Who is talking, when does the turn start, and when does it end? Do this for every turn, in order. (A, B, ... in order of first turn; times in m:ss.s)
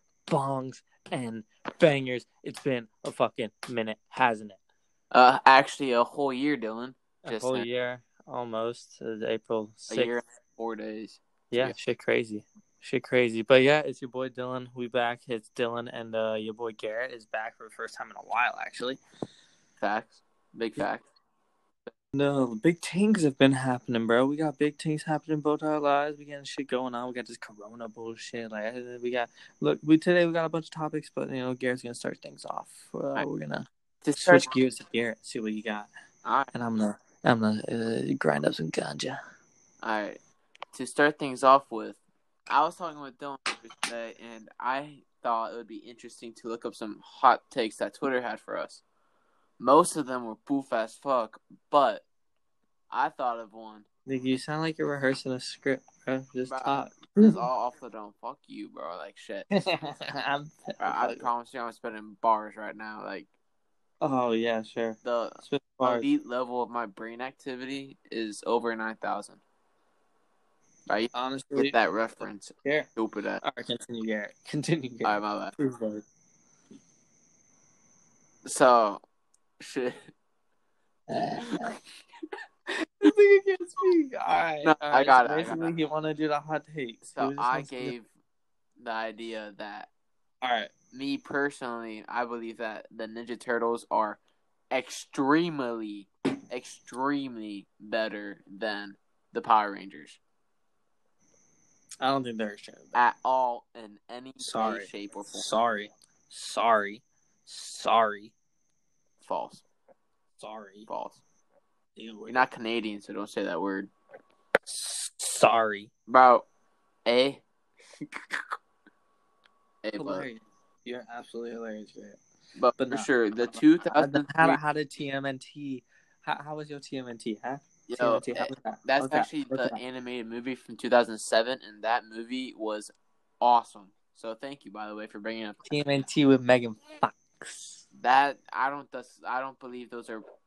0:00.3-0:04.6 A
0:05.1-0:07.6 B
0:07.2-0:10.1 A
0:09.9-0:11.8 B
0:11.5-0:19.0 A
0:19.8-0:21.1 B
0:22.1-0:35.9 A
0:34.0-0:34.5 B
0:36.2-0:36.5 B
0:36.5-0:39.2 A
0:39.8-0:40.2 B
0:40.7-0:48.8 B
0:49.6-0:52.0 B
0:52.9-0:53.8 B
0:54.0-0:57.4 A
0:56.5-0:59.5 B
0:59.5-1:01.3 A
1:00.8-1:03.3 B
1:04.0-1:06.1 A
1:05.0-1:09.4 B
1:10.9-1:13.4 B
1:11.1-1:11.8 A
1:13.4-1:16.0 A
1:15.0-1:15.5 B
1:18.4-1:19.0 B
1:19.6-1:20.0 B
1:21.1-1:21.8 A
1:22.8-1:27.9 A
1:24.6-1:25.7 B
1:27.1-1:28.1 B
1:28.8-1:29.9 B
1:30.4-1:30.7 A
1:30.9-1:34.2 B
1:34.7-1:40.2 B
1:42.0-1:43.0 A
1:42.9-1:45.5 B
1:44.4-1:48.3 A
1:49.2-1:49.6 B
1:50.4-1:50.9 A
1:50.9-1:51.2 B
1:52.0-1:52.4 A
1:52.3-1:53.9 B
1:54.7-1:55.9 A
1:56.1-1:56.4 B
1:57.0-1:58.6 B
1:59.8-2:00.3 B
2:00.0-2:02.2 A
2:02.6-2:04.6 B
2:02.8-2:03.1 A
2:03.9-2:09.8 A
2:07.9-2:15.6 B
2:15.6-2:17.8 A
2:17.9-2:20.2 B